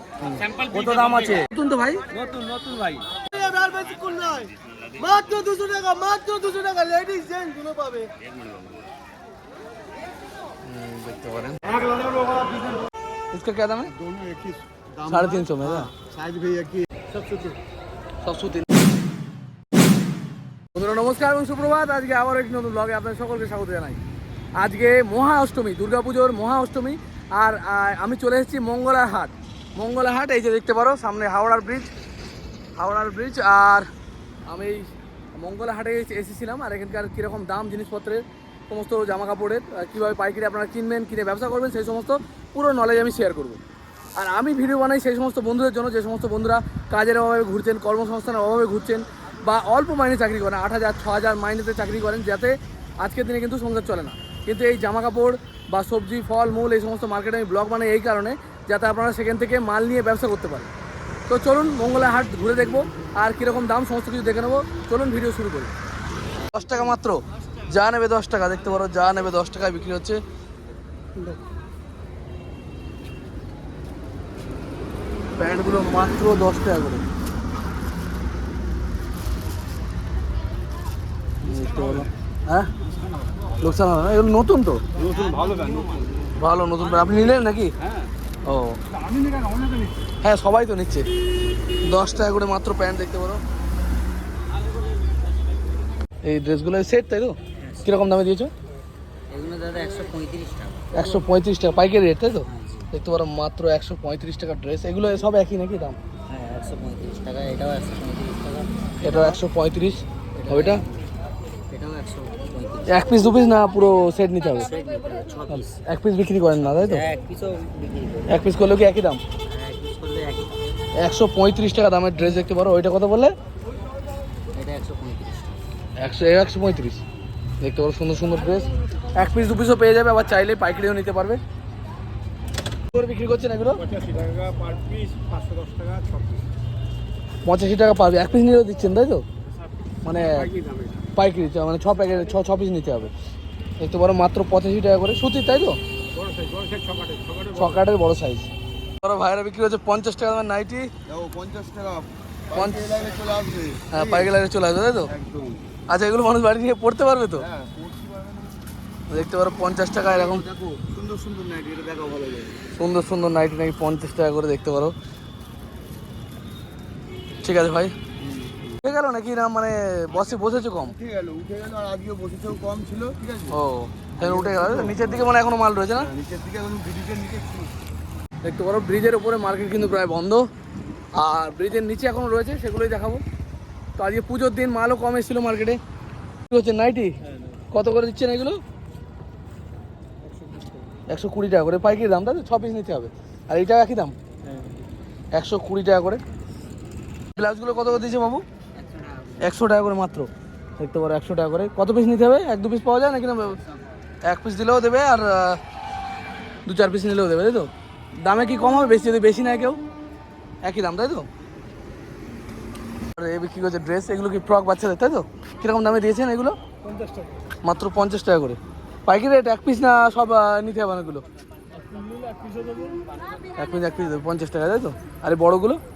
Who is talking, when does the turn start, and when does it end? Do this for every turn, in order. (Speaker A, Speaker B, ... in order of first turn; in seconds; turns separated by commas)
Speaker A: 0.2-2.0, Speaker B: 0.3-1.4, Speaker B: 2.1-3.1, Speaker C: 3.3-8.1, Speaker A: 10.6-11.6, Speaker C: 11.8-12.6, Speaker A: 13.3-13.9, Speaker C: 13.9-16.9, Speaker A: 15.1-15.9, Speaker D: 17.1-17.6, Speaker A: 18.2-18.7, Speaker A: 20.7-24.0, Speaker A: 24.6-31.9, Speaker A: 32.8-33.9, Speaker A: 34.5-43.6, Speaker A: 44.1-60.7, Speaker A: 61.3-65.7, Speaker A: 66.5-70.2, Speaker A: 75.4-77.0, Speaker A: 81.4-82.7, Speaker D: 81.5-82.1, Speaker A: 83.6-84.8, Speaker D: 85.0-86.1, Speaker C: 85.0-85.8, Speaker B: 85.1-85.5, Speaker A: 86.3-87.7, Speaker A: 88.4-88.8, Speaker D: 88.9-90.0, Speaker A: 90.2-91.1, Speaker A: 91.8-93.4, Speaker A: 96.2-98.5, Speaker B: 99.3-100.8, Speaker A: 100.9-106.0, Speaker B: 102.5-102.8, Speaker B: 106.3-108.7, Speaker A: 109.0-110.8, Speaker B: 110.3-110.8, Speaker B: 111.7-112.9, Speaker A: 112.9-114.7, Speaker B: 114.6-115.8, Speaker A: 115.5-117.0, Speaker B: 116.6-118.3, Speaker A: 118.3-119.2, Speaker B: 119.4-120.6, Speaker A: 121.0-123.3, Speaker B: 124.5-125.6, Speaker A: 126.0-127.0, Speaker A: 127.6-131.4, Speaker A: 132.9-133.8, Speaker D: 133.8-136.4, Speaker A: 137.4-139.2, Speaker A: 140.0-140.5, Speaker D: 140.3-141.1, Speaker A: 141.1-143.1, Speaker A: 143.8-145.8, Speaker D: 146.1-147.8, Speaker A: 147.5-148.5, Speaker A: 149.0-150.9, Speaker C: 151.1-154.3, Speaker A: 152.5-152.8, Speaker A: 153.9-155.1, Speaker C: 155.1-155.6, Speaker A: 155.9-157.5, Speaker C: 157.4-158.5, Speaker A: 159.1-160.4, Speaker B: 160.2-160.8, Speaker C: 160.8-162.5, Speaker A: 162.8-164.9, Speaker A: 167.4-167.9, Speaker B: 168.4-168.7, Speaker A: 168.8-170.9, Speaker C: 170.1-173.6, Speaker A: 173.5-176.1, Speaker C: 174.2-175.3, Speaker C: 175.9-177.7, Speaker A: 178.4-180.4, Speaker A: 181.1-183.2, Speaker A: 184.0-185.8, Speaker A: 186.5-187.1, Speaker A: 187.7-188.6, Speaker B: 190.3-190.7, Speaker A: 191.1-194.1, Speaker A: 195.3-196.2, Speaker A: 197.3-198.4, Speaker B: 198.8-199.4, Speaker A: 199.4-203.6, Speaker A: 204.2-205.6, Speaker A: 206.7-207.7, Speaker A: 208.2-209.8, Speaker A: 210.6-211.3, Speaker A: 213.1-216.6, Speaker D: 216.8-217.4, Speaker A: 217.6-221.2, Speaker D: 221.8-223.1, Speaker A: 223.6-225.8